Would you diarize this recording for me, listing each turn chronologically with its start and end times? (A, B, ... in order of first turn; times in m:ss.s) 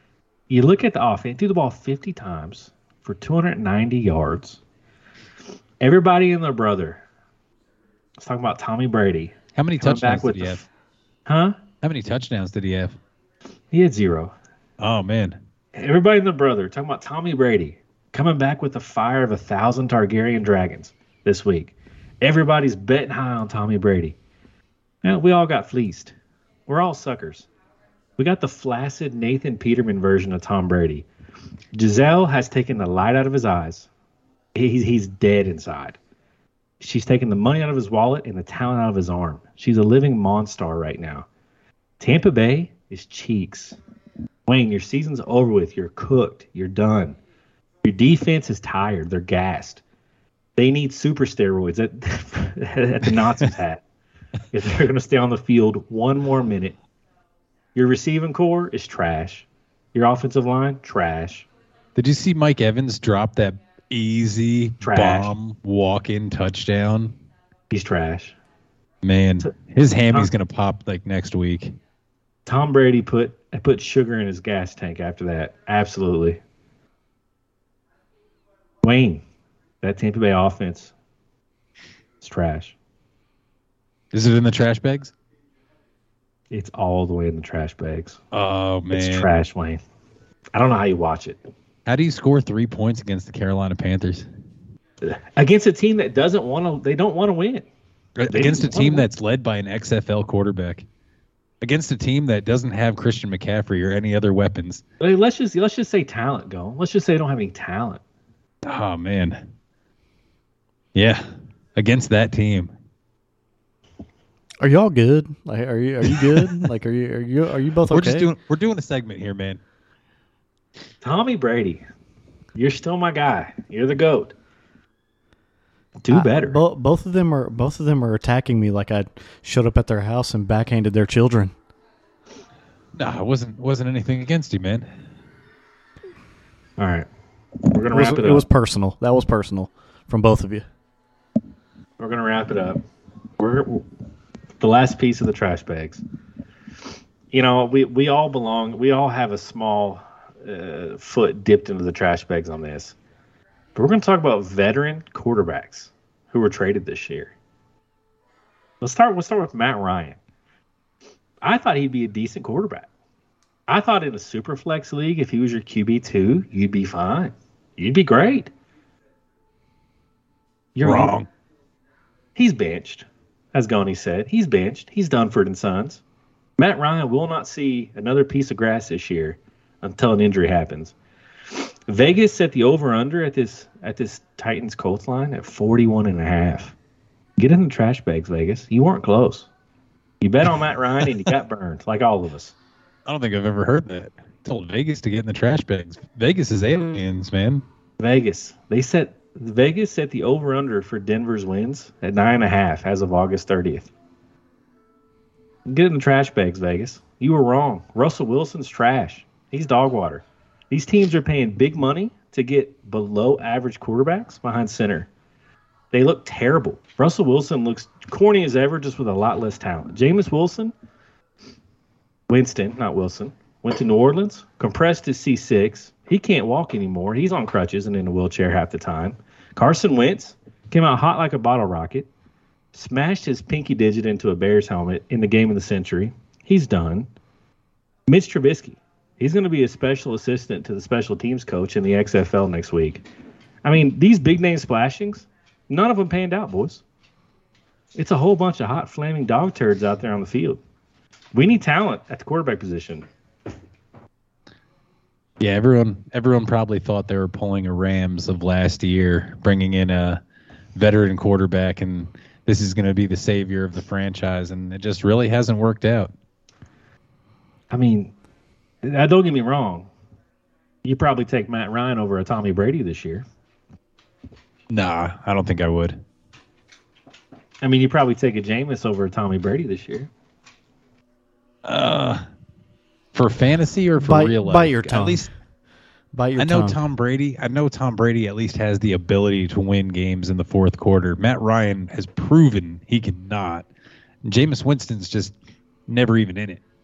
0:00.5-0:04.6 A
0:05.8-0:07.0 A
0:08.2-0:10.6 A
0:09.5-0:10.6 B
0:11.2-0:11.5 A
0:11.8-0:13.0 B
0:13.7-0:14.3 A
0:14.8-0:15.4 B
0:15.7-0:24.2 A
0:25.0-0:26.1 A
0:26.7-0:27.5 A
0:28.2-0:31.0 A
0:31.7-0:33.9 A
0:34.5-0:36.0 A
0:36.8-0:41.2 A
0:42.0-0:43.8 A
0:44.4-0:47.2 A
0:47.8-0:49.8 A
0:50.6-0:53.8 A
0:54.5-0:56.8 A
0:57.7-1:01.4 A
1:02.0-1:07.1 B
1:04.8-1:05.3 A
1:07.7-1:08.4 A
1:09.0-1:11.7 B
1:12.4-1:16.4 A
1:18.8-1:19.2 A
1:19.8-1:20.9 A
1:22.2-1:22.7 A
1:24.1-1:25.1 B
1:26.5-1:28.2 A
1:28.3-1:29.3 B
1:28.9-1:29.8 A
1:30.5-1:31.4 A
1:31.8-1:34.2 B
1:35.0-1:37.7 A
1:38.2-1:40.8 B
1:38.3-1:39.1 A
1:41.6-1:44.8 B
1:45.0-1:48.0 A
1:48.6-1:49.5 B
1:50.9-1:51.2 B
1:51.8-1:52.7 B
1:54.6-1:58.3 C
1:57.9-1:59.6 B
2:01.0-2:01.8 A
2:02.5-2:04.3 A
2:06.0-2:06.6 A
2:06.1-2:11.5 C
2:13.0-2:14.9 B
2:16.8-2:17.1 A
2:17.7-2:18.4 A
2:17.9-2:20.6 C
2:22.0-2:22.8 A
2:23.4-2:23.8 A
2:24.6-2:26.0 A
2:27.3-2:32.9 A
2:33.7-2:37.3 A
2:38.8-2:40.2 A
2:41.4-2:42.9 A
2:43.7-2:48.5 A
2:50.8-2:51.1 A
2:50.8-2:51.3 B
2:52.4-2:56.0 A
2:56.6-3:00.9 A
3:01.5-3:06.7 A
3:07.4-3:09.5 A
3:10.2-3:12.5 A
3:13.0-3:17.6 B
3:18.0-3:23.9 A
3:25.6-3:35.1 A
3:35.9-3:40.7 A
3:42.3-3:52.1 A
3:52.7-3:57.1 A
3:58.1-4:03.0 A
4:03.6-4:06.8 A
4:07.9-4:10.6 A
4:11.3-4:13.0 A
4:15.4-4:20.2 B
4:20.7-4:26.1 B
4:27.7-4:28.1 A
4:28.8-4:29.9 A
4:30.8-4:33.2 A
4:34.7-4:36.0 B
4:37.6-4:40.1 A
4:41.6-4:42.2 B
4:43.1-4:45.3 B
4:44.0-4:45.3 C
4:46.1-4:46.8 C
4:46.4-4:53.7 B
4:54.2-4:55.3 B
4:55.9-4:56.6 B